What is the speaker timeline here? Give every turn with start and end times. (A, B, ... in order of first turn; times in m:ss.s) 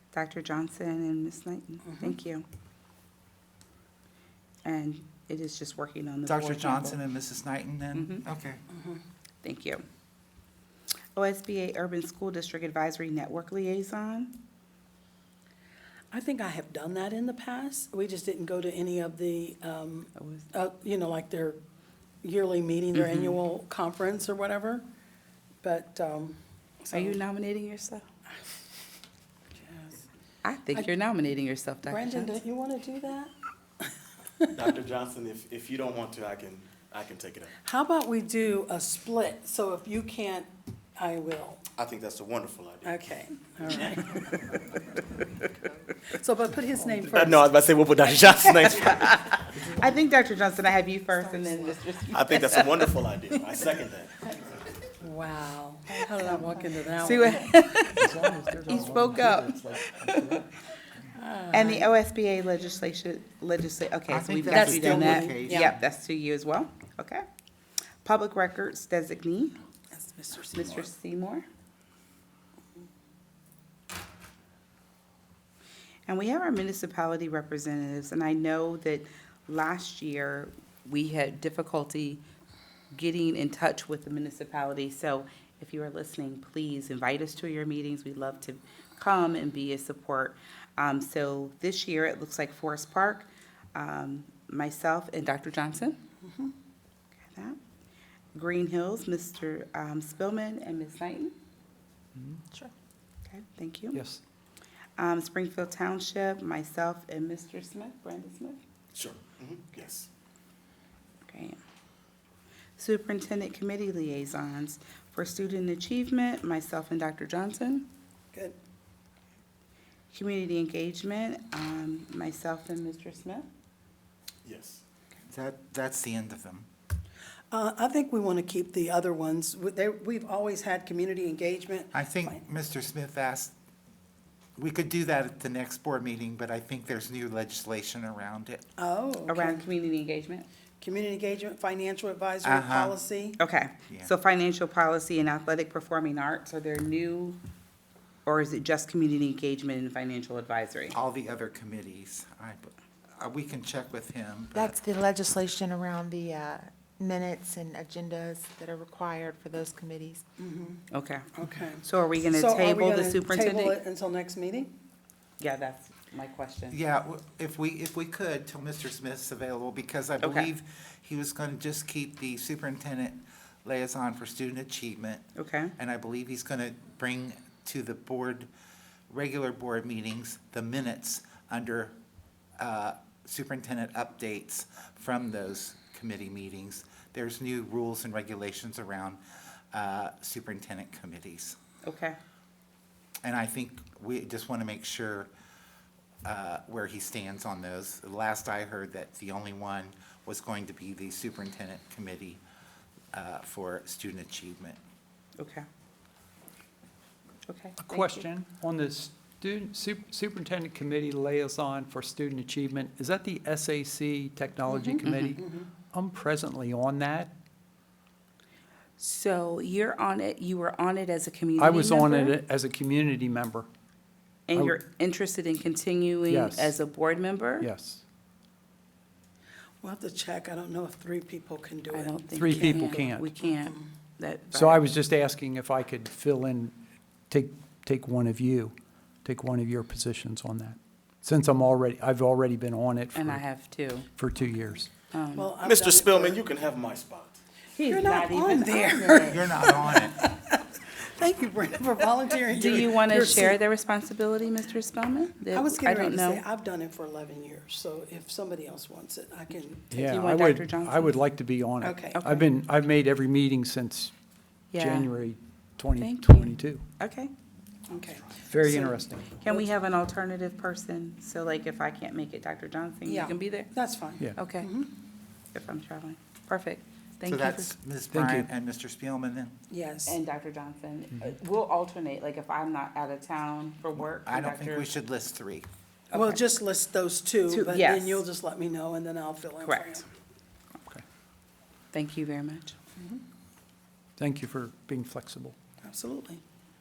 0:00.1-0:02.4 A
0:04.6-0:07.0 A
0:06.3-0:08.6 B
0:07.9-0:08.2 A
0:08.7-0:09.0 C
0:09.4-0:09.8 A
0:11.2-0:14.3 A
0:16.1-0:21.6 C
0:20.2-0:20.5 A
0:22.2-0:24.8 C
0:22.9-0:23.4 A
0:25.6-0:27.2 C
0:26.9-0:28.0 A
0:29.5-0:30.0 C
0:30.4-0:32.4 A
0:31.9-0:33.3 C
0:34.6-0:37.5 D
0:37.6-0:41.6 C
0:41.7-0:43.0 D
0:42.8-0:44.3 C
0:43.7-0:44.0 D
0:46.1-0:47.5 C
0:47.1-0:49.3 D
0:48.9-0:53.0 A
0:51.1-0:51.8 C
0:52.1-0:54.2 D
0:55.0-0:57.5 C
0:57.0-1:00.4 A
0:57.9-1:00.4 E
1:01.1-1:01.9 C
1:01.5-1:07.2 A
1:04.1-1:05.7 B
1:04.5-1:05.7 C
1:08.0-1:09.5 A
1:09.9-1:10.9 C
1:10.5-1:11.4 A
1:16.1-1:22.2 A
1:22.9-1:36.0 A
1:36.2-1:36.5 C
1:37.3-1:37.6 A
1:38.3-1:41.3 A
1:42.2-1:42.4 E
1:43.3-1:44.0 A
1:43.9-1:44.2 E
1:45.0-1:48.6 A
1:48.9-1:50.1 D
1:51.3-1:51.6 A
1:52.8-1:57.9 A
2:00.1-2:03.4 A
2:04.4-2:04.8 D
2:05.3-2:06.6 B
2:07.5-2:12.4 C
2:11.9-2:13.5 B
2:14.6-2:18.6 B
2:18.8-2:19.7 C
2:19.2-2:20.5 A
2:20.8-2:23.4 C
2:22.4-2:23.0 B
2:23.4-2:27.4 A
2:28.2-2:30.9 A
2:30.9-2:34.7 B
2:34.5-2:40.2 F
2:40.4-2:40.8 C
2:40.9-2:41.3 A
2:41.3-2:44.7 C
2:41.8-2:43.8 A
2:45.4-2:46.8 A
2:46.7-2:55.2 B
2:50.2-2:50.5 A
2:55.4-2:55.7 A
2:55.8-2:58.5 B
2:59.1-3:01.9 B
3:02.6-3:09.2 B
3:09.7-3:11.5 B
3:11.8-3:12.2 A
3:13.2-3:15.3 B
3:16.2-3:22.4 B
3:23.1-3:24.8 B
3:25.4-3:25.7 A
3:27.5-3:28.2 A
3:27.8-3:37.3 E
3:34.7-3:35.7 C
3:35.0-3:35.4 A
3:39.0-3:42.4 A
3:41.6-3:43.7 E
3:44.5-3:47.7 A
3:46.3-3:46.8 E
3:47.6-3:48.0 E
3:49.8-3:53.8 C
3:51.9-3:54.8 A
3:52.3-3:53.3 E
3:54.5-3:56.7 E
3:57.3-4:03.4 E
4:03.1-4:04.1 A
4:04.2-4:04.9 E
4:05.1-4:05.5 A
4:05.3-4:06.4 C
4:05.6-4:07.4 D
4:07.7-4:09.6 A
4:07.8-4:13.6 C
4:09.3-4:10.2 B
4:12.5-4:16.4 A
4:15.5-4:19.9 C
4:19.9-4:24.1 E
4:19.9-4:21.1 A
4:21.8-4:22.4 C
4:22.1-4:22.4 A
4:24.7-4:25.1 A
4:24.8-4:26.8 E
4:26.0-4:27.3 A
4:27.9-4:29.7 C
4:28.5-4:29.4 E
4:29.4-4:33.7 A
4:33.0-4:34.9 C
4:34.3-4:34.7 A
4:35.5-4:37.7 A
4:37.3-4:39.5 B
4:38.1-4:38.5 E
4:39.7-4:40.2 C
4:40.0-4:44.9 A
4:44.0-4:45.6 B
4:46.1-4:46.4 A
4:46.1-4:50.0 C
4:47.5-4:48.2 A
4:49.6-4:50.0 A
4:51.9-4:52.7 A
4:54.2-4:55.5 E
4:55.8-4:56.4 C